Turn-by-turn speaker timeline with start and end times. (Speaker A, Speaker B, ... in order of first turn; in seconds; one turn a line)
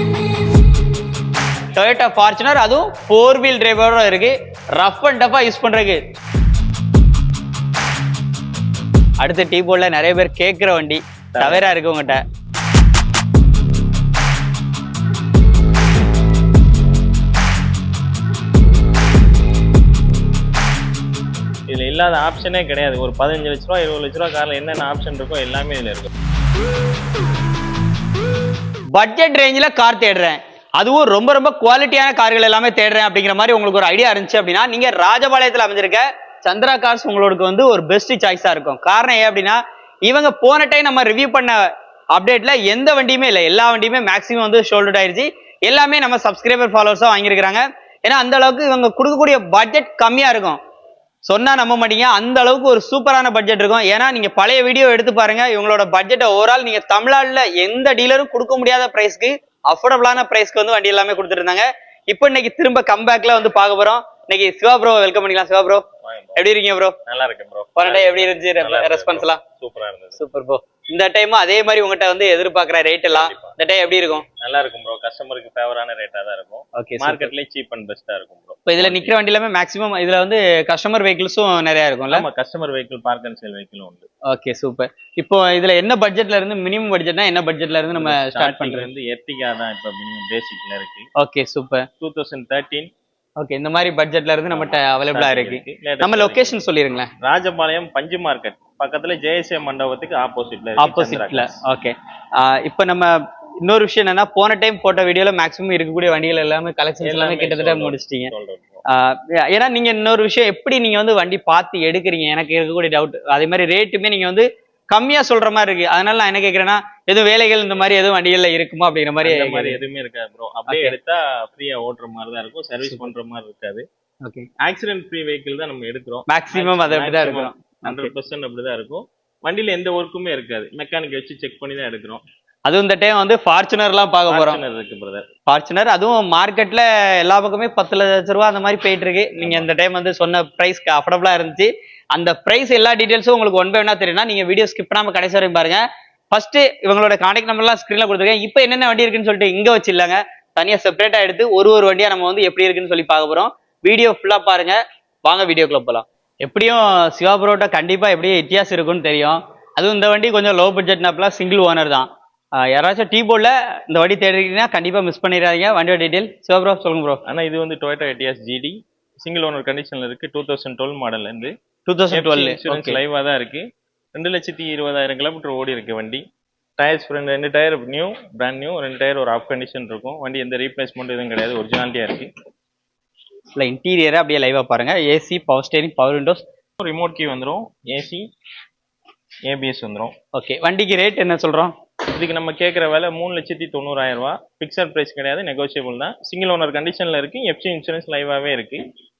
Speaker A: 1.8-6.0
Speaker A: 9.2-12.2
Speaker B: 11.3-11.7
Speaker B: 21.7-26.1
Speaker A: 28.9-41.6
Speaker A: 42.1-50.6
Speaker A: 51.2-65.8
Speaker B: 66.0-66.4
Speaker A: 66.4-67.0
Speaker B: 67.1-70.2
Speaker A: 67.8-69.4
Speaker A: 70.2-74.2
Speaker B: 73.1-73.6
Speaker B: 74.4-79.1
Speaker A: 76.8-77.3
Speaker A: 78.7-82.3
Speaker B: 82.1-84.1
Speaker A: 84.3-88.9
Speaker B: 87.9-91.1
Speaker A: 91.2-91.9
Speaker B: 92.0-92.9
Speaker A: 93.4-97.1
Speaker B: 94.5-96.6
Speaker B: 97.2-101.6
Speaker A: 100.8-108.3
Speaker B: 107.0-108.8
Speaker A: 108.9-119.8
Speaker B: 119.2-123.8
Speaker A: 120.7-120.9
Speaker A: 122.8-123.1
Speaker B: 124.6-132.2
Speaker A: 126.3-128.1
Speaker A: 132.7-134.6
Speaker B: 134.3-135.3
Speaker A: 135.5-162.1
Speaker B: 139.4-139.7
Speaker A: 162.7-167.2
Speaker B: 167.2-171.5
Speaker A: 171.9-173.0
Speaker B: 172.1-173.6
Speaker B: 174.2-176.2
Speaker B: 176.8-182.3
Speaker A: 183.6-186.4
Speaker B: 186.8-188.2
Speaker B: 189.5-190.1
Speaker A: 190.3-191.7
Speaker B: 192.1-198.9